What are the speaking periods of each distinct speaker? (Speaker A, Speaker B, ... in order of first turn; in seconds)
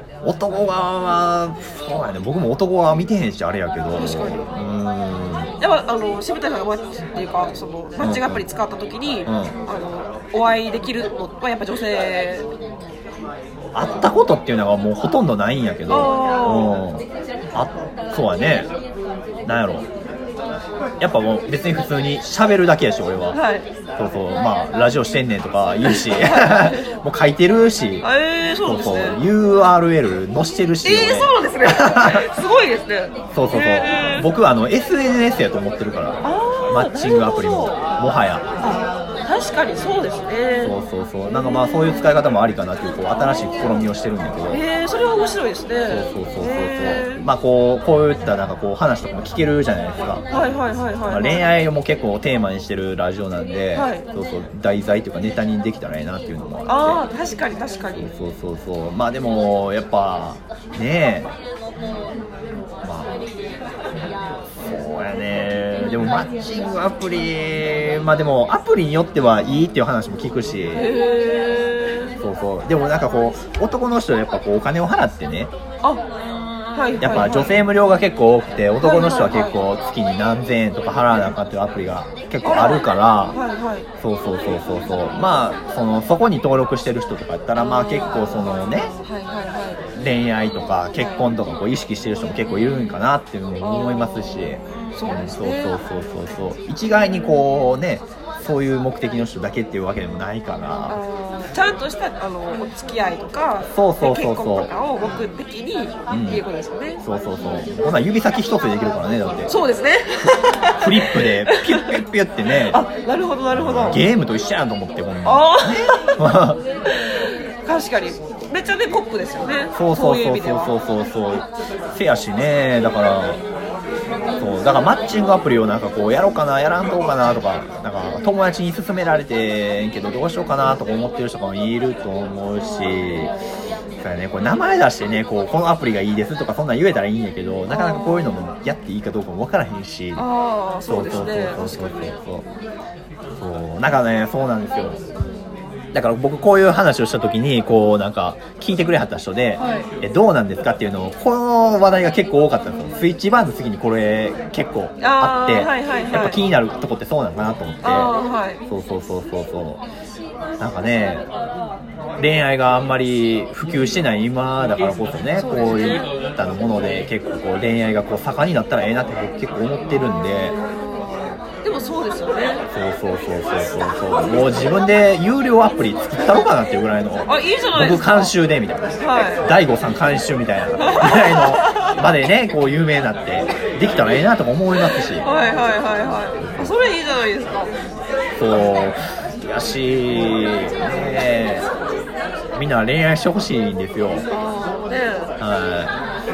Speaker A: 0.2-5.5, 8.0-8.4, 9.3-9.5, 13.8-17.0, 17.5-18.7, 19.4-19.9, 21.0-23.4, 24.0-28.1, 28.6-32.2, 33.3-38.5, 40.6-44.6, 45.9-50.2, 51.1-57.0, 58.0-61.3, 62.8-63.2, 64.5-70.9, 72.2-75.5, 77.0-83.4, 84.0-88.9, 89.9-101.0, 103.7-104.7, 106.1-106.4, 107.0-109.5, 110.8-112.8, 113.5-116.6, 119.7-123.4, 124.4-133.3, 134.0-140.2, 140.9-142.4, 143.4-145.0, 145.9-158.1, 158.7-159.8, 160.6-161.3, 162.2-170.5, 172.7-185.3, 188.4-191.7, 192.6-194.2, 195.4-195.9
Speaker B: 3.9-4.5, 5.6-12.5, 15.9-16.8, 23.3-23.7, 25.8-26.8, 28.0-29.2, 30.8-34.3, 36.2-37.8, 38.6-40.8, 43.1-43.8, 44.5-47.2, 50.3-51.4, 53.7-54.0, 56.6-58.1, 70.8-72.1, 76.8-77.6, 78.8-79.6, 82.4-83.9, 89.0-89.8, 91.0-91.2, 93.6-95.8, 100.9-107.0, 109.5-112.0, 112.7-114.0, 115.2-116.2, 116.9-120.7, 132.6-133.2, 137.7-138.4, 140.1-142.1, 149.6-149.9, 155.0-156.4, 157.8-158.6, 165.4-166.1, 170.5-172.7, 177.2-178.3, 179.0-179.5, 180.8-181.8, 184.9-187.7, 194.3-195.3